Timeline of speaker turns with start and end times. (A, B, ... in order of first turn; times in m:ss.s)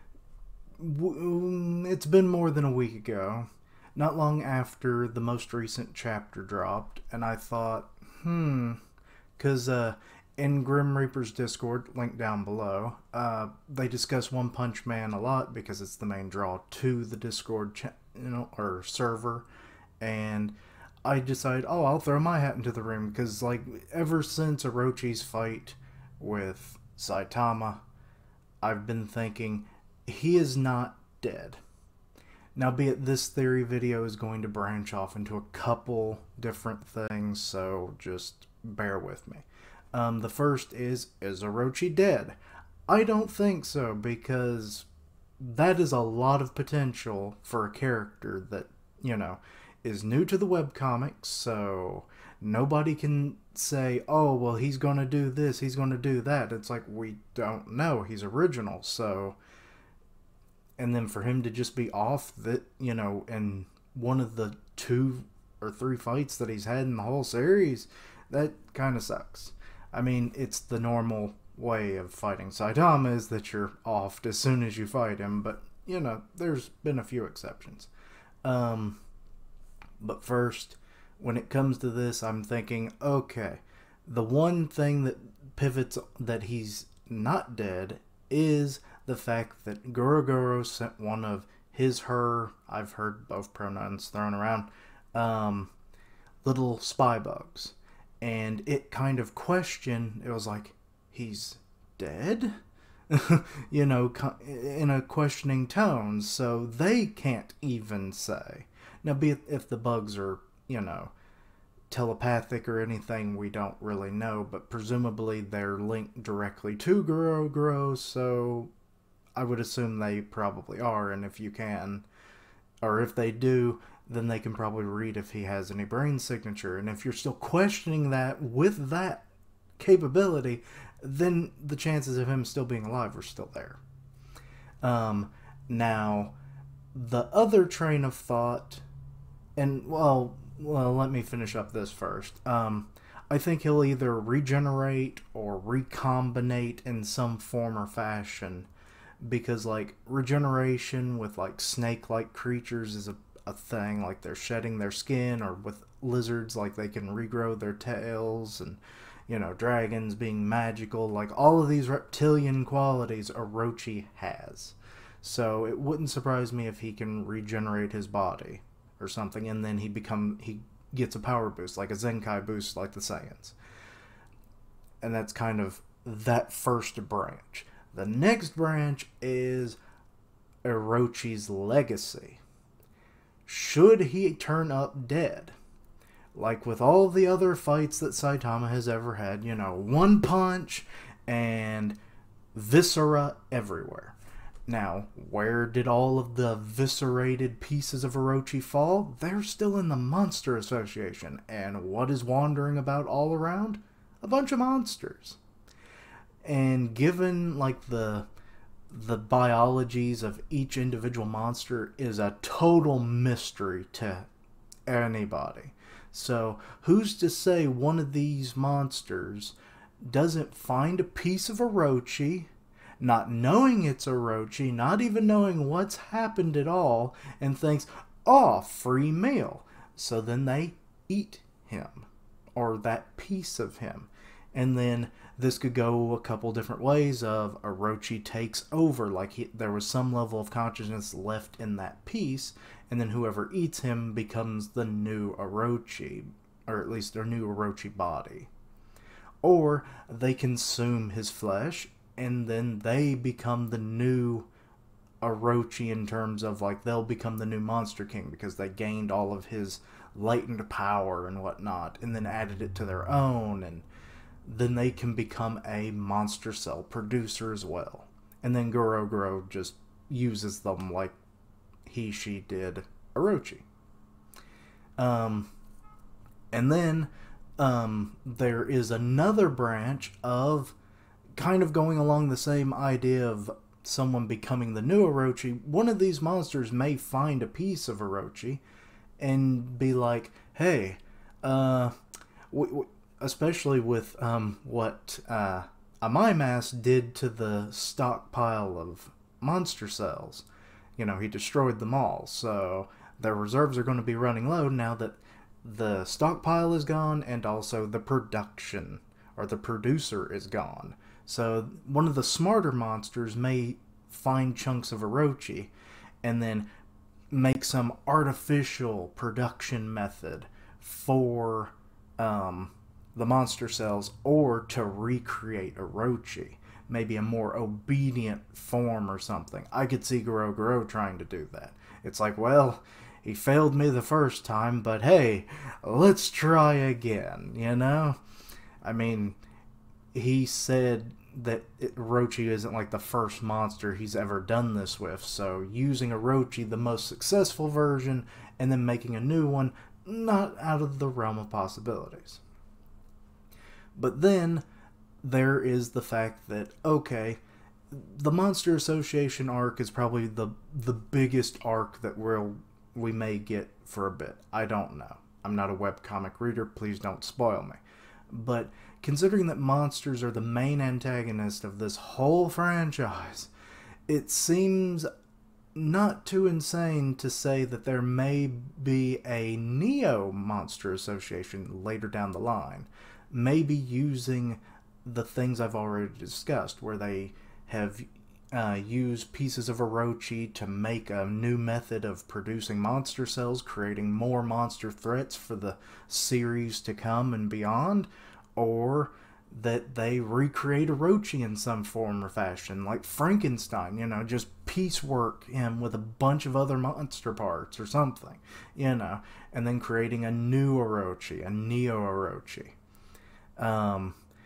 0:00.8-0:08.8 A
0:09.4-0:19.5 A
0:20.0-0:27.8 A
0:28.6-0:31.6 A
0:32.5-0:42.4 A
0:42.9-0:44.9 A
0:45.4-0:59.4 A
1:00.8-1:17.9 A
1:18.4-1:19.0 A
1:20.0-1:35.7 A
1:36.4-1:42.6 A
1:43.1-1:51.1 A
1:51.9-1:58.7 A
1:59.4-2:02.0 A
2:02.8-2:09.2 A
2:09.8-2:13.8 A
2:14.8-2:16.3 A
2:16.9-2:18.8 A
2:19.6-2:28.7 A
2:29.2-2:53.6 A
2:55.0-2:59.8 A
3:00.6-3:02.4 A
3:03.4-3:05.5 A
3:06.3-3:12.0 A
3:12.5-3:14.2 A
3:14.7-3:25.4 A
3:26.4-3:28.3 A
3:28.9-3:34.3 A
3:34.9-3:42.5 A
3:43.0-4:08.5 A
4:09.4-4:14.5 A
4:15.2-4:23.8 A
4:24.4-4:31.2 A
4:31.8-4:33.6 A
4:35.0-4:35.5 A
4:36.5-4:40.8 A
4:41.3-4:48.6 A
4:49.2-4:51.9 A
4:52.5-5:00.4 A
5:01.0-5:15.7 A
5:16.2-5:16.7 A
5:17.3-5:38.2 A
5:38.8-5:39.4 A
5:40.1-5:52.4 A
5:54.0-5:54.6 A
5:55.2-6:13.5 A
6:14.1-6:15.1 A
6:15.7-6:52.7 A
6:53.6-6:54.2 A